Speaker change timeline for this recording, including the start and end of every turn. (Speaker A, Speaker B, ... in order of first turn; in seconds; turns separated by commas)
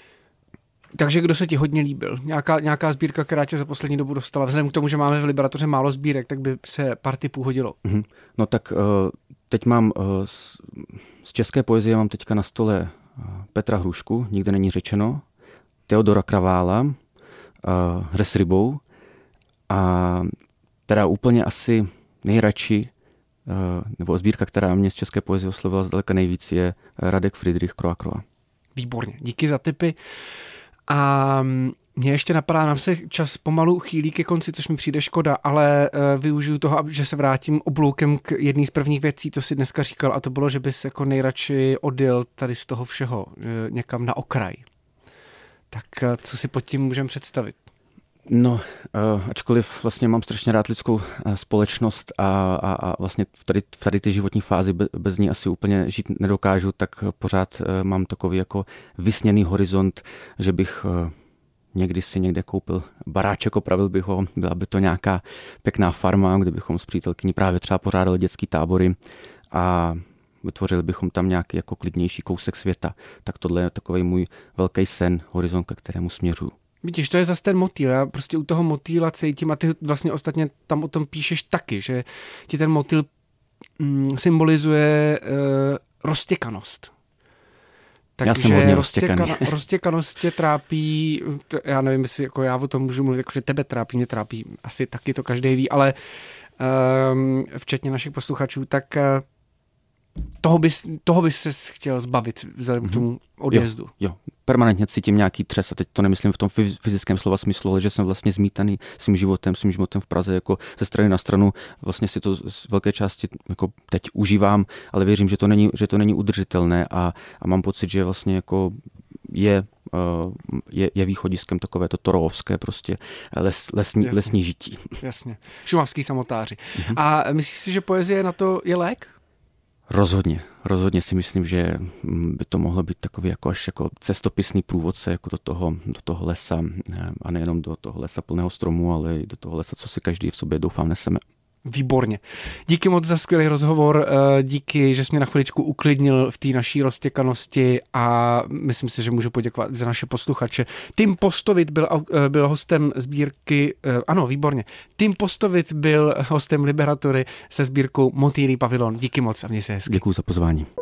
Speaker A: 0.9-7.8, Speaker B: 7.8-15.2, Speaker B: 15.9-17.0, Speaker B: 17.6-18.8, Speaker B: 19.7-20.3, Speaker B: 20.9-22.9, Speaker B: 23.5-28.2, Speaker A: 28.8-30.0, Speaker A: 30.9-44.6, Speaker A: 45.7-47.6, Speaker B: 48.3-61.1, Speaker B: 61.7-69.0, Speaker B: 69.5-76.5, Speaker A: 76.8-83.1, Speaker A: 83.8-86.9, Speaker A: 88.2-96.0, Speaker B: 88.2-89.5, Speaker A: 96.6-99.2, Speaker A: 100.4-103.9, Speaker B: 102.8-125.0, Speaker A: 124.0-124.3, Speaker A: 125.0-129.1, Speaker B: 129.9-141.2, Speaker A: 141.7-160.0, Speaker B: 159.9-160.7